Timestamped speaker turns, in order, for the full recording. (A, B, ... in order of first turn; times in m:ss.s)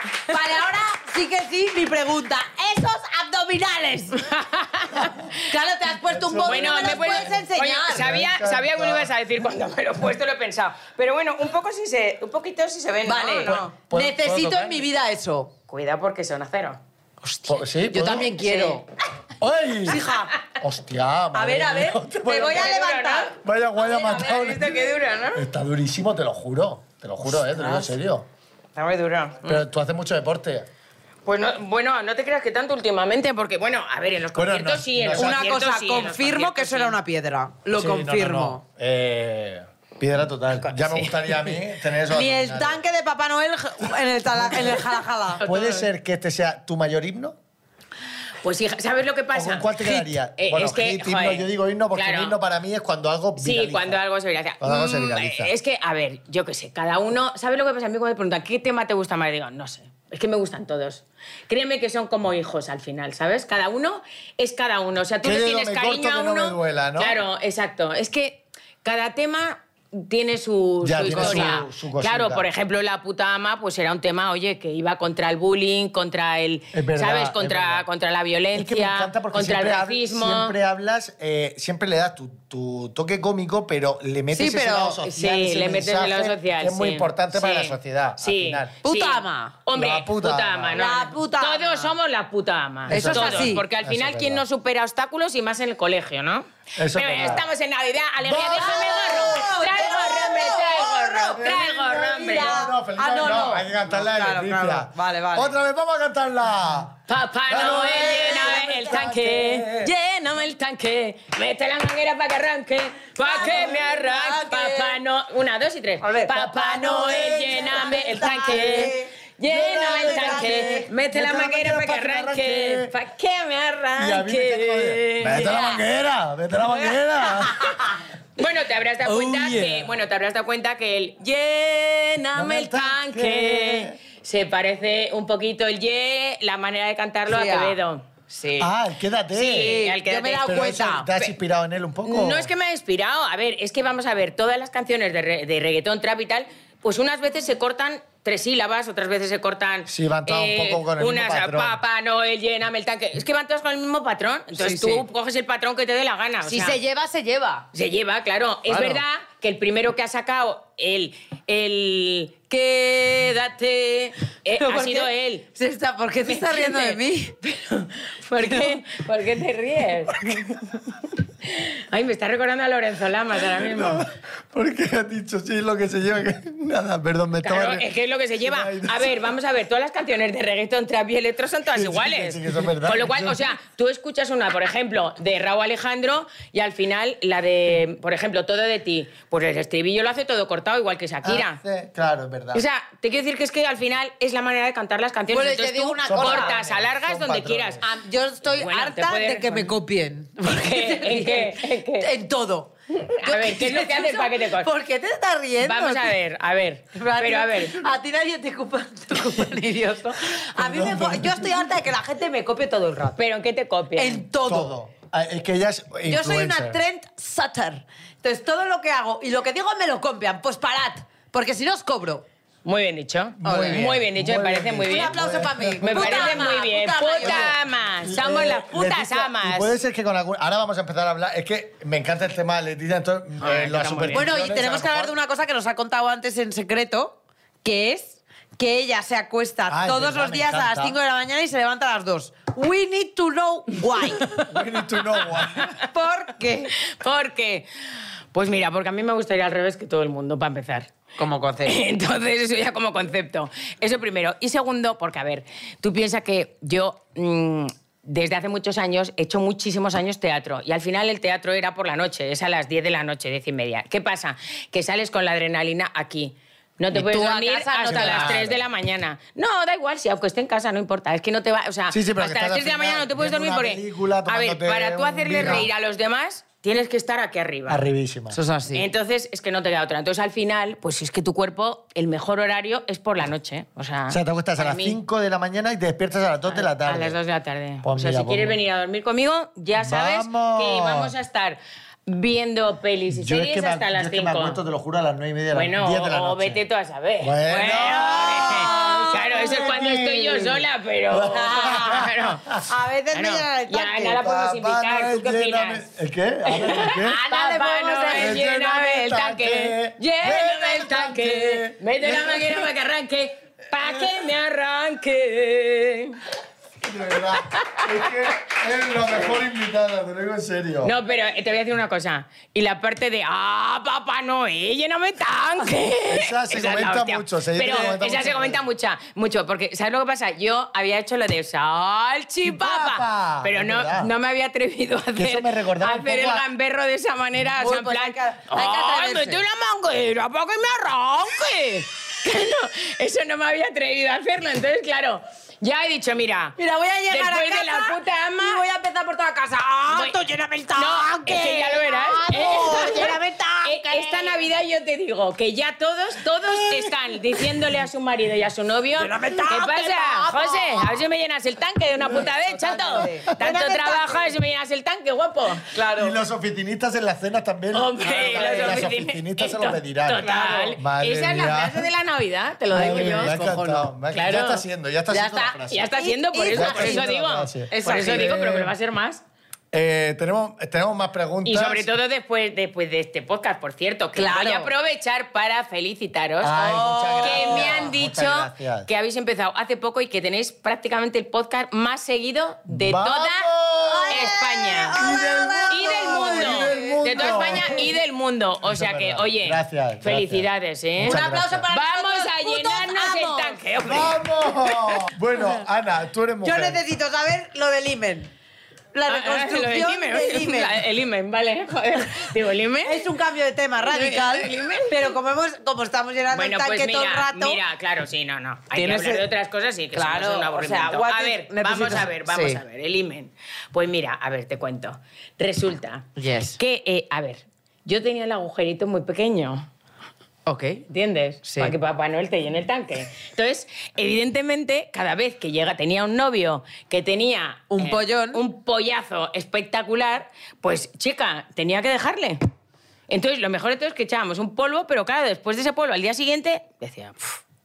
0:00.3-0:04.2 A
0:04.2-0:05.3 B
0:05.4-0:08.0 A
0:06.1-0:09.1 C
0:06.4-0:13.7 B
0:13.0-0:15.5 A
0:13.4-0:14.9 C
0:15.7-0:16.8 B
0:17.2-0:18.8 A
0:17.5-0:18.4 C
0:18.4-0:18.8 B
0:19.4-0:20.0 C
0:19.9-0:20.3 A
0:20.6-0:22.7 C
0:21.3-0:24.7 A
0:22.3-0:23.3 B
0:23.4-0:28.3 C
0:24.0-0:25.4 B
0:27.5-0:27.9 A
0:28.8-0:29.4 A
0:29.4-0:30.7 C
0:31.2-0:37.0 B
0:34.4-0:35.4 C
0:35.1-0:38.6 A
0:37.7-0:42.8 C
0:40.6-0:41.5 B
0:42.1-0:45.4 A
0:44.4-0:44.8 C
0:45.4-0:45.9 B
0:45.4-0:47.4 C
0:48.4-0:52.4 B
0:49.3-0:54.0 C
0:53.4-1:20.6 B
0:54.6-0:55.5 C
1:05.2-1:07.2 C
1:10.8-1:12.5 C
1:11.0-1:11.6 A
1:16.7-1:17.8 C
1:18.5-1:28.7 C
1:24.3-1:25.0 A
1:25.0-1:42.6 B
1:28.8-1:29.6 A
1:29.7-1:30.8 C
1:30.7-1:31.9 A
1:32.9-1:34.4 C
1:32.9-1:33.6 A
1:36.8-1:37.4 C
1:38.2-1:39.4 C
1:38.3-1:41.5 A
1:41.4-1:49.9 C
1:42.2-1:45.5 A
1:47.1-2:05.8 B
1:53.2-1:55.0 A
1:56.0-2:00.9 A
1:56.2-1:58.9 C
1:59.4-2:02.9 C
2:04.0-2:07.8 C
2:05.4-2:05.6 A
2:06.9-2:07.4 B
2:08.4-2:18.0 B
2:09.0-2:09.9 A
2:12.3-2:14.0 C
2:17.3-2:17.8 A
2:18.3-2:18.7 A
2:18.6-2:19.8 C
2:19.3-2:21.3 B
2:19.5-2:21.1 A
2:20.4-2:22.5 C
2:22.0-2:36.8 B
2:29.9-2:31.8 C
2:34.5-2:35.0 A
2:36.4-2:37.6 A
2:37.7-2:45.5 B
2:38.7-2:39.0 A
2:44.5-2:47.3 A
2:46.2-2:50.8 B
2:48.4-2:48.8 A
2:51.4-2:54.0 B
2:53.5-2:57.9 C
2:57.4-3:11.6 B
2:58.4-2:59.2 C
3:01.7-3:03.4 C
3:11.2-3:12.6 C
3:12.5-3:17.8 B
3:15.3-3:16.5 A
3:16.0-3:17.8 C
3:17.8-3:26.1 A
3:18.4-3:19.7 B
3:20.4-3:22.1 B
3:23.0-3:24.7 B
3:25.6-3:27.8 B
3:26.9-3:33.2 A
3:30.5-3:31.7 C
3:33.2-3:34.2 B
3:34.0-3:34.7 A
3:34.4-3:36.8 C
3:36.0-3:42.2 A
3:42.6-3:45.2 B
3:43.4-3:46.6 C
3:43.4-3:43.9 A
3:44.8-3:47.5 A
3:45.8-3:49.7 B
3:47.2-3:55.1 C
3:53.4-3:54.3 B
3:54.1-4:04.4 A
3:59.7-4:01.0 C
4:04.5-4:05.8 C
4:05.6-4:05.8 B
4:05.8-4:06.7 A
4:06.8-4:07.7 B
4:08.3-4:10.9 B
4:11.2-4:11.8 A
4:11.6-4:37.9 B
4:26.9-4:28.4 A
4:27.9-4:28.6 C
4:31.9-4:35.7 C
4:37.7-4:38.4 C
4:38.3-4:38.9 A
4:38.7-4:45.0 B
4:44.1-4:47.2 C
4:46.5-4:54.6 B
4:47.8-4:48.6 C
4:49.8-4:51.1 C
4:53.1-4:56.6 C
4:55.5-5:02.6 B
4:57.2-5:02.6 C
4:57.7-4:59.3 A
5:01.3-5:02.1 A
5:02.6-5:04.2 A
5:03.1-5:05.8 B
5:04.2-5:07.2 C
5:06.5-5:16.2 B
5:07.1-5:08.4 A
5:08.1-5:12.7 C
5:13.8-5:14.1 C
5:16.8-5:20.9 C
5:17.5-5:18.1 B
5:20.8-5:46.6 B
5:26.1-5:28.6 C
5:32.4-5:34.1 C
5:35.1-5:36.5 C
5:37.5-5:39.4 A
5:46.6-5:54.4 A
5:47.1-5:48.6 B
5:49.9-5:50.2 B
5:50.8-6:05.7 B
5:56.4-5:57.4 A
5:59.0-6:01.0 A
6:02.1-6:04.3 A
6:05.7-6:06.2 A
6:05.9-6:11.9 C
6:07.7-6:13.4 B
6:08.1-6:08.9 A
6:10.2-6:10.8 A
6:12.7-6:15.9 C
6:12.7-6:13.9 A
6:14.1-6:14.6 B
6:15.1-6:17.1 A
6:15.7-6:19.2 B
6:16.5-6:18.7 C
6:17.7-6:18.4 A
6:19.7-6:21.9 C
6:21.4-6:26.5 B
6:24.1-6:24.7 A
6:26.4-6:28.9 C
6:26.5-6:27.9 A
6:27.2-6:33.5 B
6:32.7-6:34.3 C
6:33.9-6:37.9 A
6:34.1-6:35.0 B
6:34.9-6:37.9 C
6:35.7-6:44.2 B
6:38.6-6:41.7 C
6:41.0-6:43.6 A
6:43.8-6:46.8 C
6:46.4-6:48.3 A
6:48.9-6:50.8 A
6:49.1-6:53.1 B
6:52.8-6:57.6 A
6:53.8-6:55.1 B
6:56.3-7:09.7 B
6:58.7-6:59.2 A
6:59.9-7:02.6 A
7:06.2-7:06.6 A
7:10.4-7:10.8 A
7:10.9-7:22.4 B
7:11.4-7:11.7 A
7:17.7-7:18.4 A
7:23.1-7:27.4 B